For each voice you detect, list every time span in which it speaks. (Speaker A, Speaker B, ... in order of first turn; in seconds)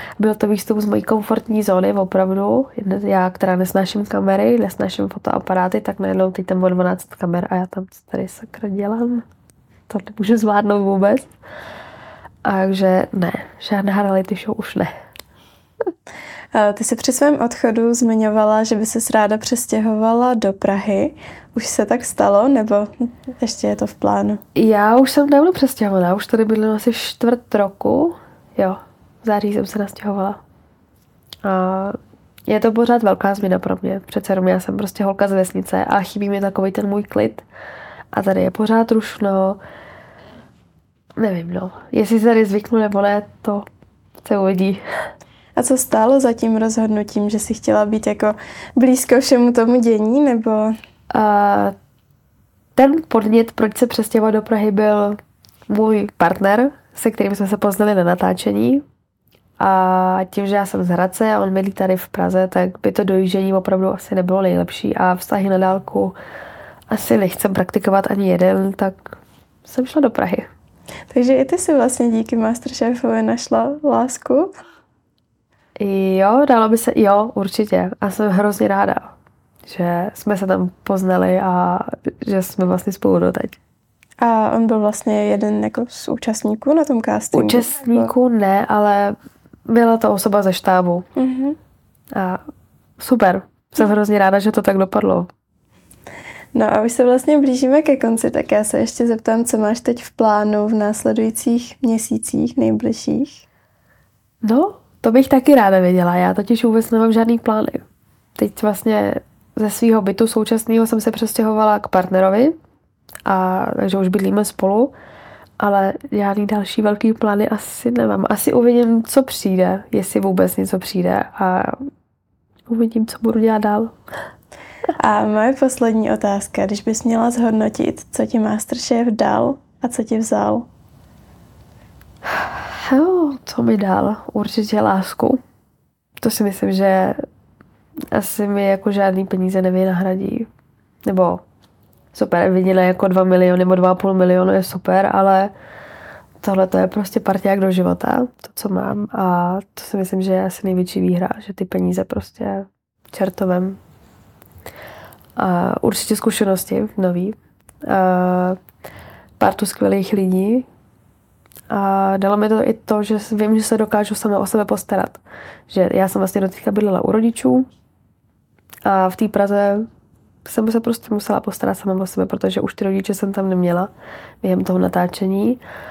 Speaker A: 0.2-9.2, 9.9-11.3, 12.4-14.9, 24.6-30.4, 31.4-37.4, 38.1-39.6, 41.2-43.7, 44.2-44.8, 51.1-51.7, 52.8-58.8, 59.6-66.1, 66.9-69.0, 69.7-70.5, 75.8-79.1, 79.7-83.6, 87.3-89.2, 89.7-91.0, 92.1-92.4, 93.0-95.3, 104.4-107.8, 108.4-112.5, 113.3-114.9, 115.6-121.8, 122.7-123.9, 132.3-135.4, 136.2-137.2, 138.1-140.5, 141.1-141.4, 142.1-145.5, 146.4-153.8, 155.4-158.6, 159.4-160.7, 161.7-167.7, 168.9-169.9, 170.4-173.9, 174.4-175.6
Speaker B: 16.5-24.4, 45.5-50.7, 71.1-74.5, 84.2-88.1, 91.2-91.6, 96.5-103.4, 125.0-130.7